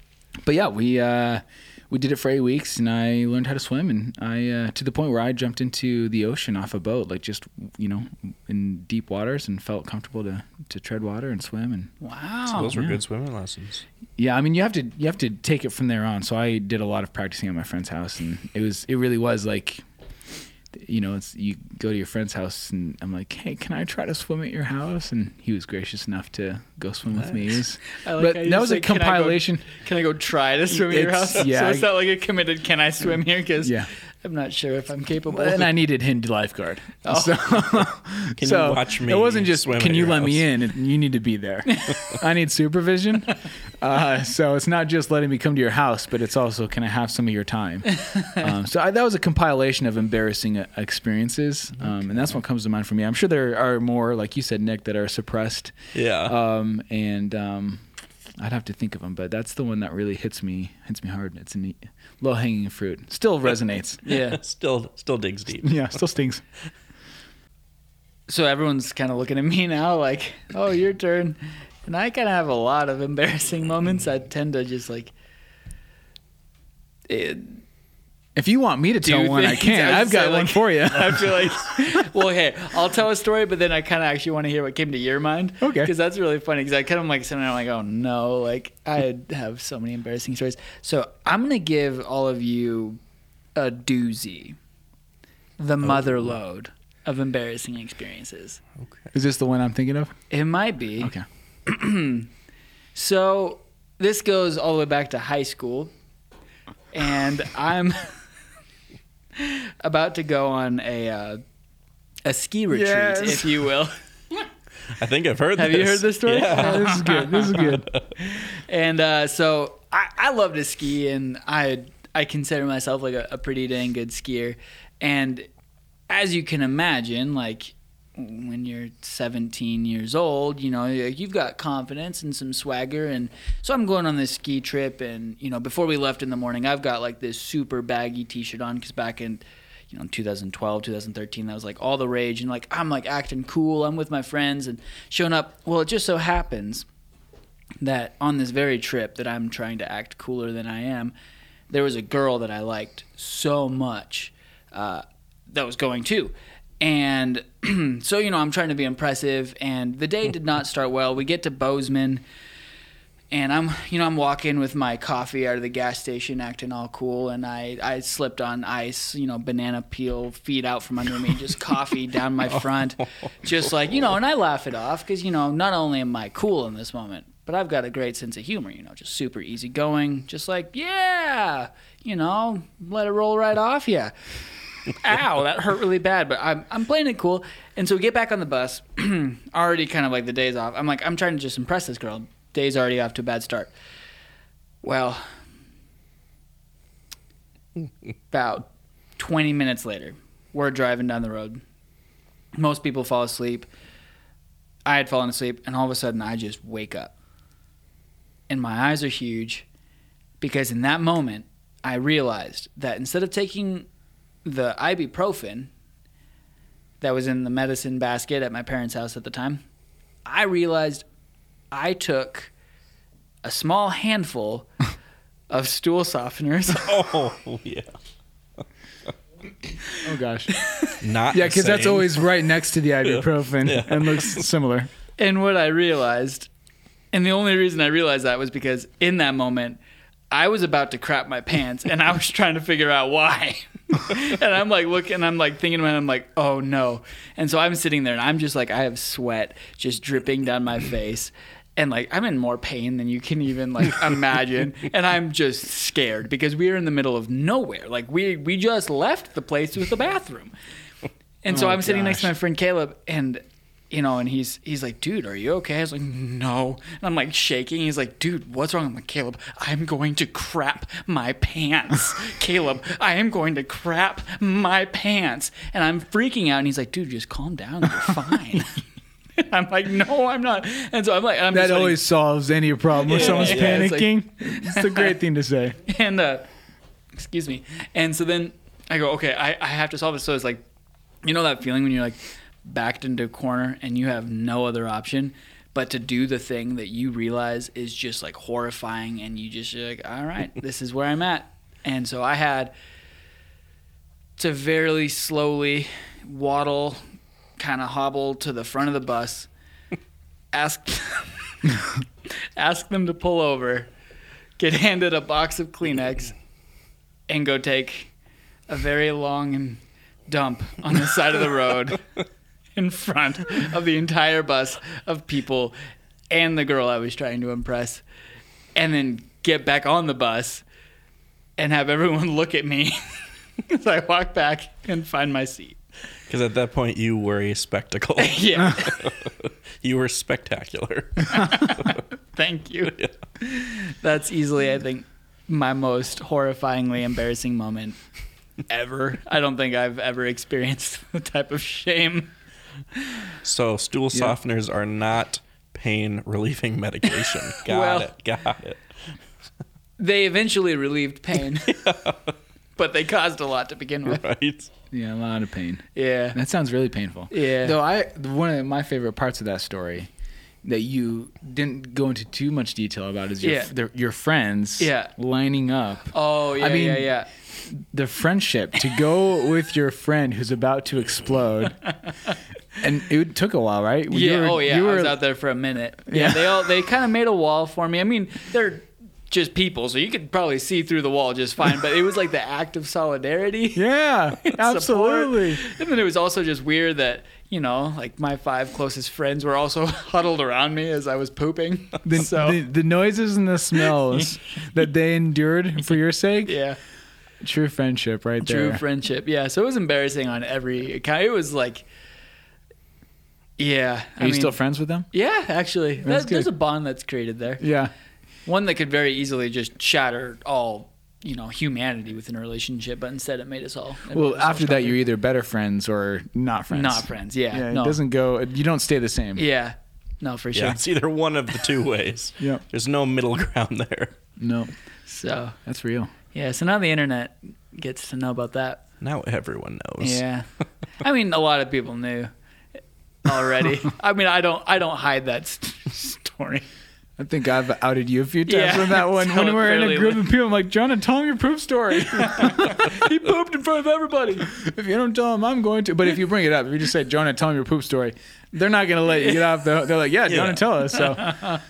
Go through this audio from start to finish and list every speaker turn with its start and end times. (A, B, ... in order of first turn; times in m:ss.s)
0:00.4-0:11.9 A
0:12.0-0:12.7 B
0:12.5-0:13.8 C
0:12.6-0:13.0 A
0:14.2-0:19.8 A
0:20.7-0:29.6 A
0:28.0-0:35.7 B
0:30.7-0:31.9 A
0:33.6-0:33.9 A
0:35.3-0:55.7 A
0:37.0-0:37.6 B
0:38.4-0:40.4 C
0:48.1-0:48.4 B
0:55.9-0:56.3 C
0:56.2-0:57.8 A
0:58.4-1:04.0 A
1:04.0-1:04.4 B
1:04.2-1:05.8 C
1:05.6-1:06.4 A
1:08.3-1:15.1 B
1:17.1-1:17.6 B
1:18.4-1:22.1 A
1:19.0-1:33.0 B
1:25.6-1:25.9 A
1:33.5-1:34.6 B
1:35.6-1:38.6 B
1:39.1-1:40.1 A
1:40.3-1:41.1 B
1:41.0-1:41.2 A
1:41.7-1:42.3 B
1:42.9-1:45.9 B
1:46.9-1:48.1 B
1:49.4-1:51.4 B
1:52.2-1:54.4 B
1:52.7-1:53.6 A
1:54.9-1:57.0 C
1:55.6-2:05.5 B
1:56.5-1:57.9 A
1:57.6-1:58.1 C
2:06.1-2:26.8 B
2:27.8-2:31.1 B
2:31.7-2:42.2 B
2:43.3-3:04.1 B
3:04.9-3:13.7 B
3:14.8-3:15.2 B
3:18.3-3:21.6 B
3:22.5-3:23.7 B
3:24.9-3:27.1 B
3:28.5-3:29.6 B
3:30.4-3:33.9 B
3:34.4-3:35.7 B
3:37.0-3:39.6 B
3:40.2-3:41.0 B
3:41.7-3:42.5 B
3:43.4-3:44.7 B
3:45.5-3:46.9 B
3:46.7-3:47.9 C
3:50.0-3:50.6 A
3:51.0-3:52.2 C
3:51.3-3:54.9 A
3:53.0-3:54.4 C
3:55.2-3:56.5 B
3:57.1-3:59.8 B
4:00.3-4:20.5 B
4:21.4-4:38.8 B
4:21.5-4:22.3 A
4:39.4-4:42.0 B
4:41.5-4:45.8 A
4:43.0-4:45.1 B
4:43.0-4:43.9 C
4:45.9-4:46.5 B
4:47.1-4:50.6 B
4:51.2-5:02.7 B
5:04.4-5:07.0 B
5:07.6-5:09.5 B
5:10.5-5:11.7 B
5:12.6-5:13.9 B
5:14.6-5:16.3 B
5:17.3-5:18.1 B
5:18.7-5:22.0 B
5:22.8-5:25.8 B
5:26.3-5:28.0 B
5:28.7-5:30.6 B
5:31.6-5:33.0 B
5:33.7-5:35.8 B
5:36.3-5:42.0 C
5:38.2-5:39.1 B
5:41.3-5:48.0 B
5:48.7-5:52.3 B
5:53.4-5:58.8 C
5:57.6-5:58.1 B
6:00.0-6:01.8 B
6:01.6-6:02.3 C
6:02.8-6:04.2 B
6:04.0-6:04.7 C
6:04.9-6:10.1 A
6:06.0-6:06.4 B
6:07.3-6:07.8 B
6:10.6-6:17.1 A
6:13.4-6:13.7 B
6:14.8-6:15.1 B
6:16.1-6:17.3 B
6:17.7-6:21.8 A
6:22.8-6:25.2 A
6:24.1-6:33.8 B
6:26.1-6:26.8 A
6:33.7-6:35.6 A
6:34.4-6:42.6 B
6:42.0-6:46.6 A
6:46.4-6:46.8 B
6:47.4-6:48.8 A
6:48.4-6:51.9 B
6:53.6-6:54.5 B
6:54.2-6:55.0 A
6:55.1-6:57.6 B
6:56.0-6:56.5 A
6:57.6-6:57.9 A
6:58.4-7:05.0 B
7:04.1-7:09.4 A
7:06.7-7:08.0 B
7:09.4-7:10.8 B
7:10.5-7:14.1 C
7:14.4-7:14.7 A
7:15.1-7:15.6 B
7:15.6-7:16.1 A
7:16.3-7:18.8 B
7:19.0-7:20.2 C
7:20.0-7:20.4 B
7:21.0-7:22.3 B
7:23.2-7:26.6 B
7:27.2-7:33.0 A
7:28.5-7:30.3 B
7:32.0-7:34.5 B
7:34.4-7:41.4 A
7:39.2-7:39.5 B
7:40.3-7:40.6 C
7:40.9-7:41.6 B